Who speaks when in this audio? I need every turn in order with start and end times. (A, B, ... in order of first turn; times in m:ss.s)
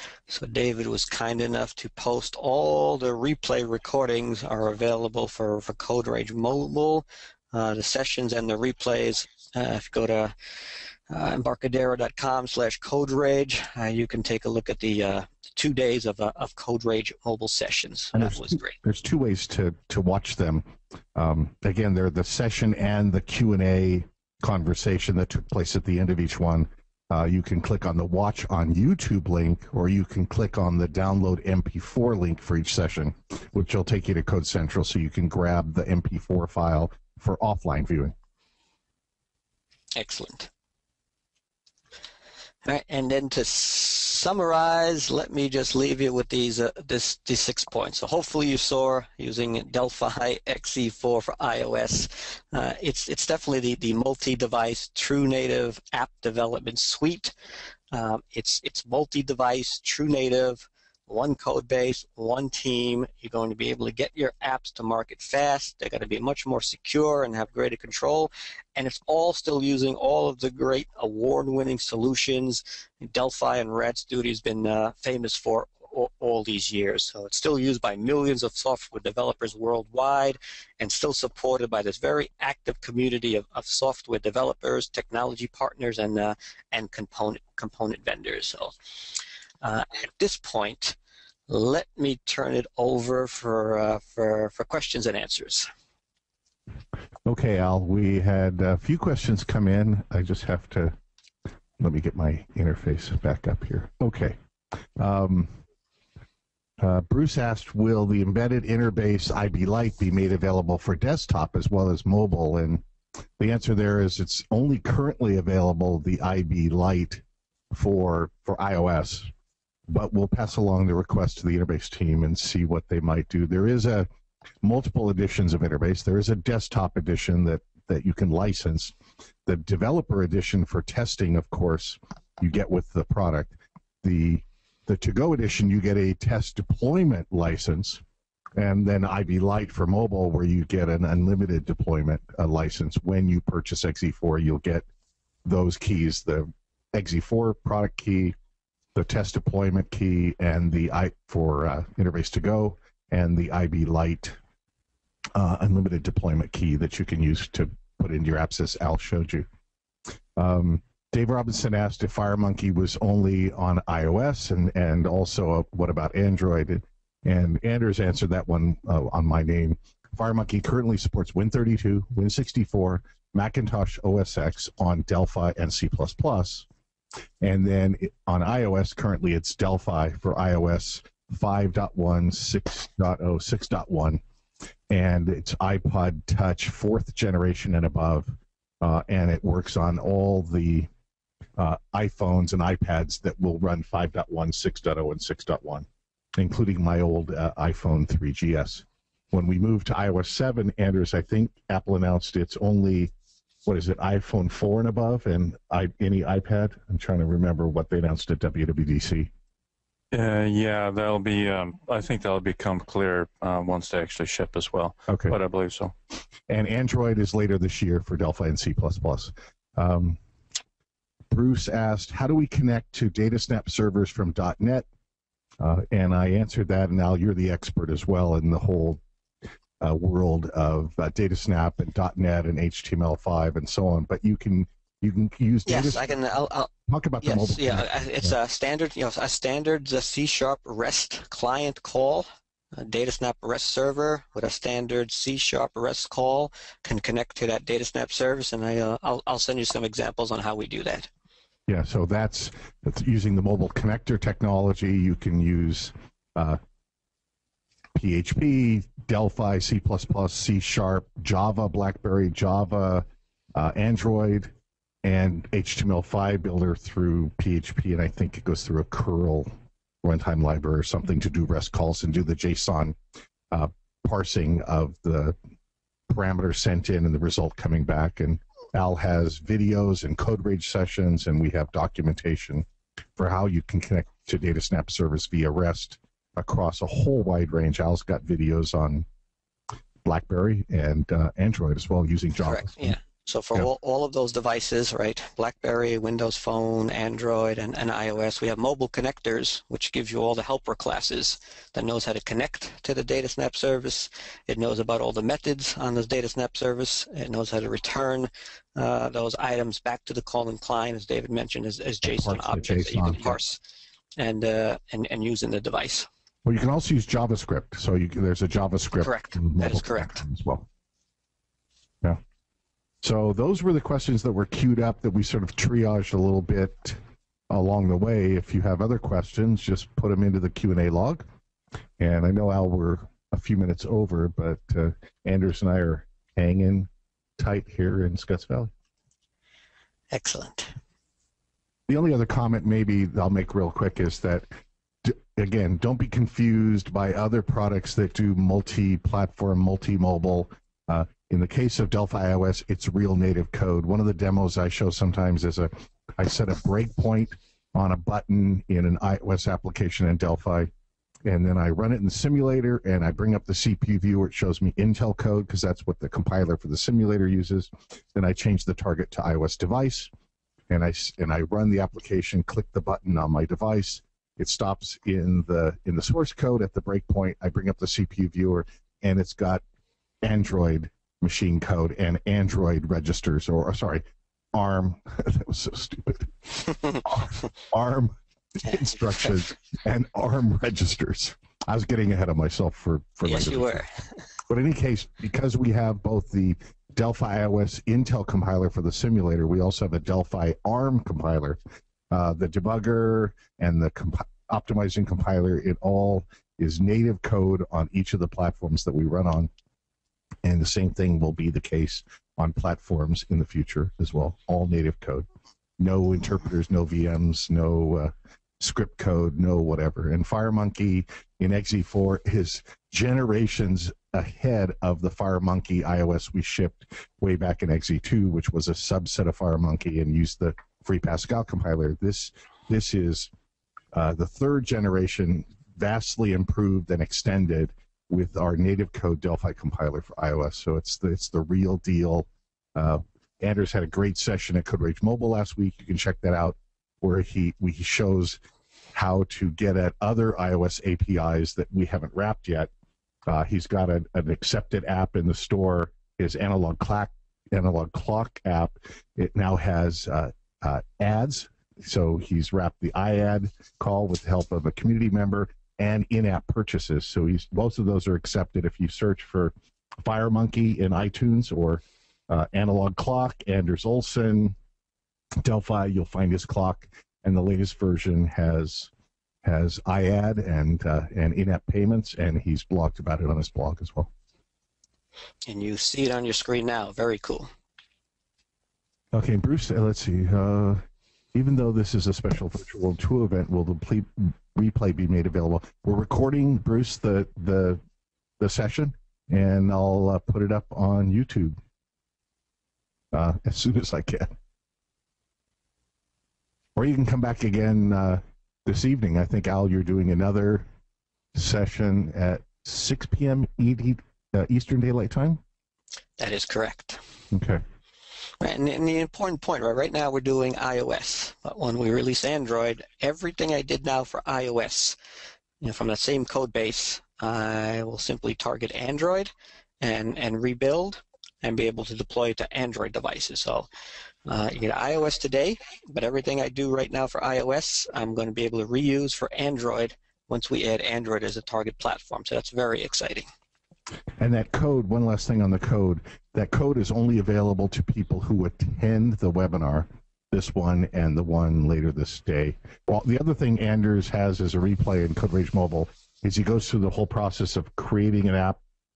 0:00.3-0:10.3 A
0:11.1-0:18.8 A
0:18.1-0:38.1 B
0:39.9-0:40.5 A
0:42.6-0:57.3 A
0:57.9-1:28.7 A
1:29.6-1:31.0 A
1:31.5-1:35.7 A
1:37.2-1:41.0 B
1:41.8-1:44.4 B
1:45.0-1:45.6 B
1:46.8-1:52.8 B
1:53.4-1:59.3 B
1:59.9-2:04.1 B
2:04.6-2:08.9 B
2:09.4-2:18.0 B
2:18.6-2:24.8 B
2:25.4-2:28.3 B
2:28.9-2:34.4 B
2:35.4-2:39.4 B
2:40.4-2:56.7 B
2:57.4-3:04.2 B
3:04.9-3:10.9 B
3:11.6-3:23.1 B
3:23.6-3:29.3 B
3:30.1-3:35.9 C
3:35.1-3:35.3 B
3:36.5-3:40.2 B
3:41.3-3:44.8 B
3:45.6-3:49.0 B
3:49.8-3:56.1 B
3:55.6-3:56.7 A
3:56.7-3:58.3 B
3:57.2-4:11.1 A
4:11.7-4:16.6 B
4:17.9-4:23.0 B
4:23.5-4:24.5 B
4:25.0-4:29.5 B
4:30.0-4:33.0 B
4:33.5-4:35.3 B
4:36.1-4:42.6 B
4:43.2-4:49.0 B
4:50.0-4:53.0 B
4:52.4-5:13.6 A
5:12.0-5:13.4 B
5:14.2-5:16.1 A
5:16.4-5:20.7 B
5:19.0-5:20.2 A
5:23.0-5:31.2 B
5:32.0-5:38.7 B
5:40.1-5:40.7 A
5:41.9-5:44.4 B
5:45.0-6:00.7 B
6:01.2-6:10.1 B
6:10.7-6:19.6 B
6:20.2-6:24.0 B
6:24.5-6:33.8 B
6:28.7-6:29.4 A
6:33.2-6:34.2 A
6:34.5-6:41.6 B
6:42.1-6:49.5 B
6:50.4-6:55.2 B
6:55.8-7:13.3 B
7:13.9-7:28.4 B
7:28.9-7:32.7 B
7:33.3-7:49.5 B
7:50.0-7:54.6 B
7:55.4-7:58.9 B
7:59.4-8:04.1 B
8:05.4-8:07.5 A
8:09.1-8:17.8 B
8:18.4-8:21.6 B
8:23.1-8:24.3 B
8:26.8-8:30.7 B
8:31.3-8:35.4 B
8:36.2-8:37.0 A
8:37.3-8:37.6 B
8:38.4-8:45.0 A
8:45.6-8:53.7 A
8:54.2-9:03.2 A
9:04.2-9:18.6 B